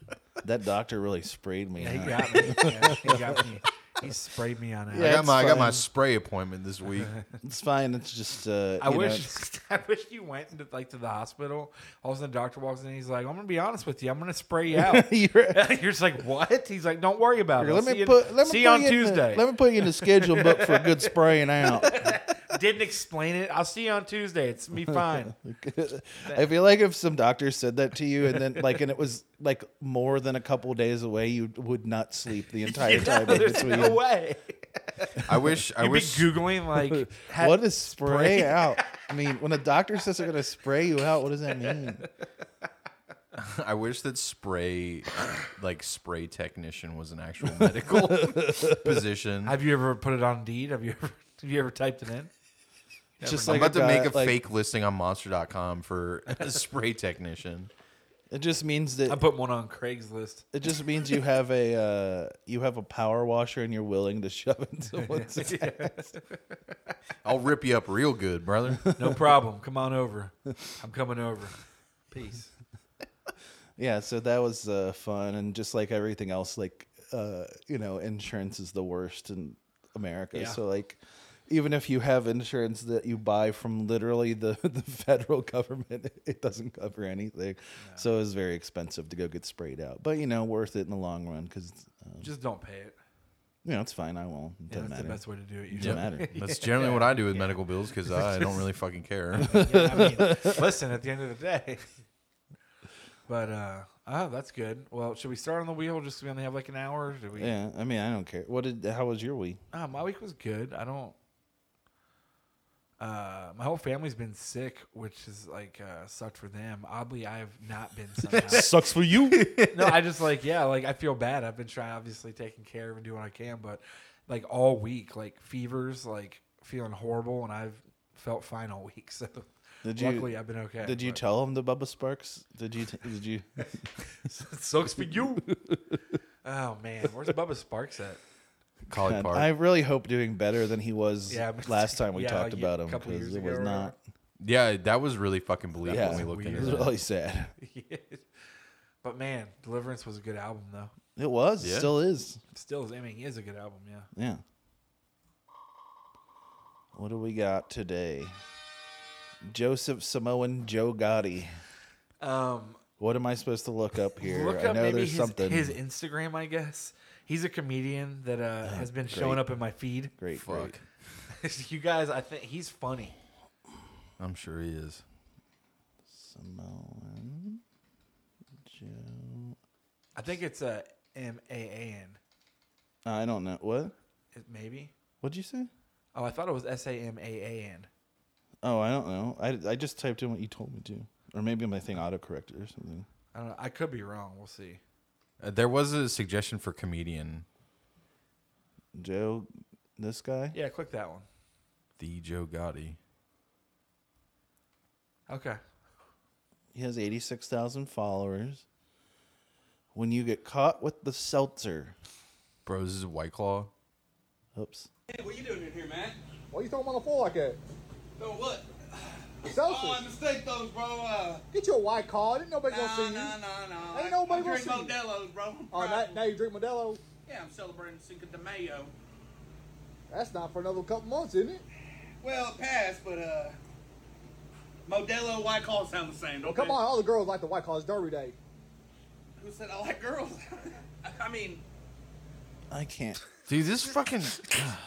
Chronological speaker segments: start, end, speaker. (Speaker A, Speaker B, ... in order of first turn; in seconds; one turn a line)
Speaker A: 0.4-3.4
Speaker B: 1.8-5.3
Speaker C: 4.9-7.1
Speaker A: 5.0-5.8
Speaker A: 7.4-9.3
Speaker B: 8.8-25.4
Speaker A: 14.7-15.6
Speaker A: 17.6-22.2
Speaker A: 24.9-34.0
Speaker B: 26.2-26.5
Speaker B: 32.6-35.2
Speaker C: 35.2-36.4
Speaker B: 35.8-38.9
Speaker A: 36.9-42.0
Speaker C: 43.4-49.6
Speaker A: 47.6-49.0
Speaker B: 49.5-52.3
Speaker B: 53.2-53.7
Speaker A: 53.2-54.4
Speaker C: 53.3-57.7
Speaker A: 58.3-59.2
Speaker B: 59.1-60.5
Speaker A: 60.5-66.1
Speaker B: 64.9-66.2
Speaker C: 67.2-68.9
Speaker A: 68.9-69.2
Speaker B: 69.0-71.6
Speaker B: 72.1-72.5
Speaker A: 73.8-92.3
Speaker B: 80.3-80.6
Speaker B: 87.8-88.1
Speaker B: 92.2-93.0
Speaker A: 93.7-96.4
Speaker B: 94.7-97.6
Speaker C: 95.8-99.5
Speaker A: 99.4-100.6
Speaker B: 99.4-101.9
Speaker B: 103.3-107.5
Speaker A: 107.3-109.6
Speaker B: 109.7-111.2
Speaker B: 113.0-118.7
Speaker A: 118.3-119.5
Speaker B: 119.5-131.2
Speaker A: 129.8-133.9
Speaker B: 134.2-135.7
Speaker B: 136.4-138.2
Speaker C: 138.9-139.5
Speaker A: 138.9-144.0
Speaker B: 141.3-143.9
Speaker C: 144.4-146.9
Speaker B: 145.9-146.9
Speaker A: 145.9-147.5
Speaker B: 147.6-148.3
Speaker B: 149.0-150.9
Speaker A: 151.2-152.4
Speaker C: 151.6-151.9
Speaker B: 152.5-154.1
Speaker A: 154.2-154.4
Speaker A: 156.9-158.4
Speaker A: 159.4-161.6
Speaker B: 162.2-162.8
Speaker A: 163.0-165.8
Speaker B: 164.2-170.1
Speaker A: 168.6-169.4
Speaker A: 170.2-170.8
Speaker C: 170.3-170.8
Speaker B: 171.3-173.2
Speaker C: 174.2-175.0
Speaker A: 176.1-177.6
Speaker A: 178.7-179.6
Speaker B: 180.2-182.2
Speaker A: 183.1-183.9
Speaker B: 184.3-184.9
Speaker A: 185.2-185.7
Speaker B: 186.1-187.9
Speaker A: 188.6-193.1
Speaker B: 193.3-194.8
Speaker C: 195.4-197.4
Speaker A: 199.0-200.6
Speaker B: 200.5-201.3
Speaker C: 202.0-203.0
Speaker B: 205.3-205.6
Speaker A: 206.7-208.6
Speaker A: 209.9-211.9
Speaker C: 212.7-213.7
Speaker A: 214.6-214.9
Speaker D: 215.1-216.2
Speaker E: 216.5-217.6
Speaker D: 218.2-221.4
Speaker E: 219.5-220.1
Speaker E: 221.5-225.0
Speaker D: 222.7-226.2
Speaker E: 225.7-227.0
Speaker D: 227.2-228.9
Speaker E: 230.1-231.6
Speaker D: 232.2-233.6
Speaker D: 234.9-236.8
Speaker E: 236.4-238.4
Speaker D: 239.4-241.7
Speaker A: 242.7-243.2
Speaker C: 243.5-244.8